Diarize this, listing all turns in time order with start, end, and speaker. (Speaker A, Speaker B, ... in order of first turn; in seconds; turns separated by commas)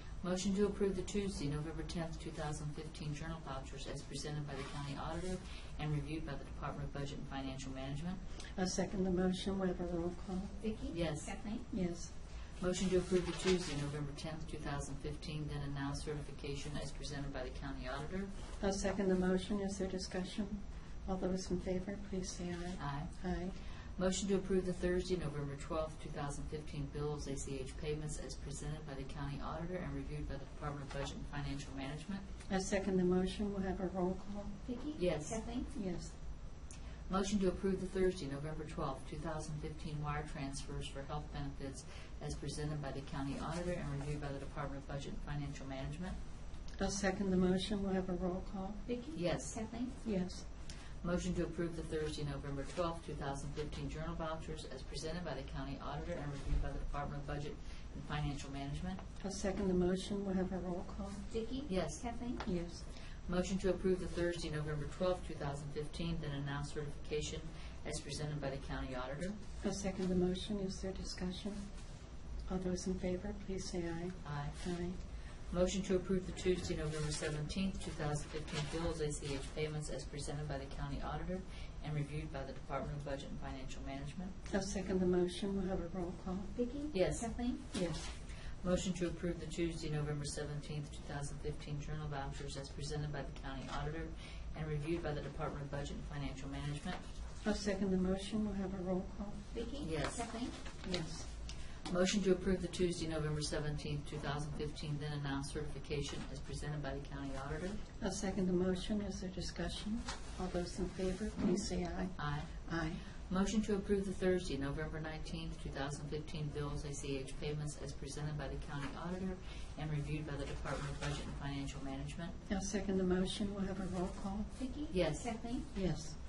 Speaker A: 0.2-8.2, Speaker B: 8.6-10.6, Speaker C: 10.6-11.6, Speaker A: 10.9-11.4, Speaker B: 11.7-12.1, Speaker A: 12.6-18.3, Speaker B: 18.6-23.6, Speaker A: 22.8-23.1, Speaker A: 24.0-32.2, Speaker B: 32.5-34.6, Speaker C: 34.6-35.7, Speaker A: 35.0-35.4, Speaker B: 35.7-36.1, Speaker A: 37.1-46.2, Speaker B: 46.8-48.8, Speaker C: 48.9-49.9, Speaker A: 49.1-49.6, Speaker B: 50.0-50.4, Speaker A: 51.0-59.0, Speaker B: 59.2-61.2, Speaker C: 61.3-62.4, Speaker A: 61.7-62.1, Speaker B: 62.4-62.8, Speaker A: 63.3-69.4, Speaker B: 69.6-71.6, Speaker B: 72.5-75.0, Speaker A: 74.2-74.6, Speaker A: 75.5-84.3, Speaker B: 84.5-86.5, Speaker C: 86.6-87.6, Speaker A: 86.9-87.3, Speaker B: 87.7-88.1, Speaker A: 88.6-97.0, Speaker B: 97.4-99.4, Speaker C: 99.5-100.5, Speaker A: 99.8-100.3, Speaker B: 100.8-101.3, Speaker A: 101.9-107.8, Speaker B: 108.0-113.0, Speaker A: 112.2-112.5, Speaker A: 113.3-122.3, Speaker B: 122.5-124.5, Speaker C: 124.6-125.6, Speaker A: 124.9-125.4, Speaker B: 125.7-126.2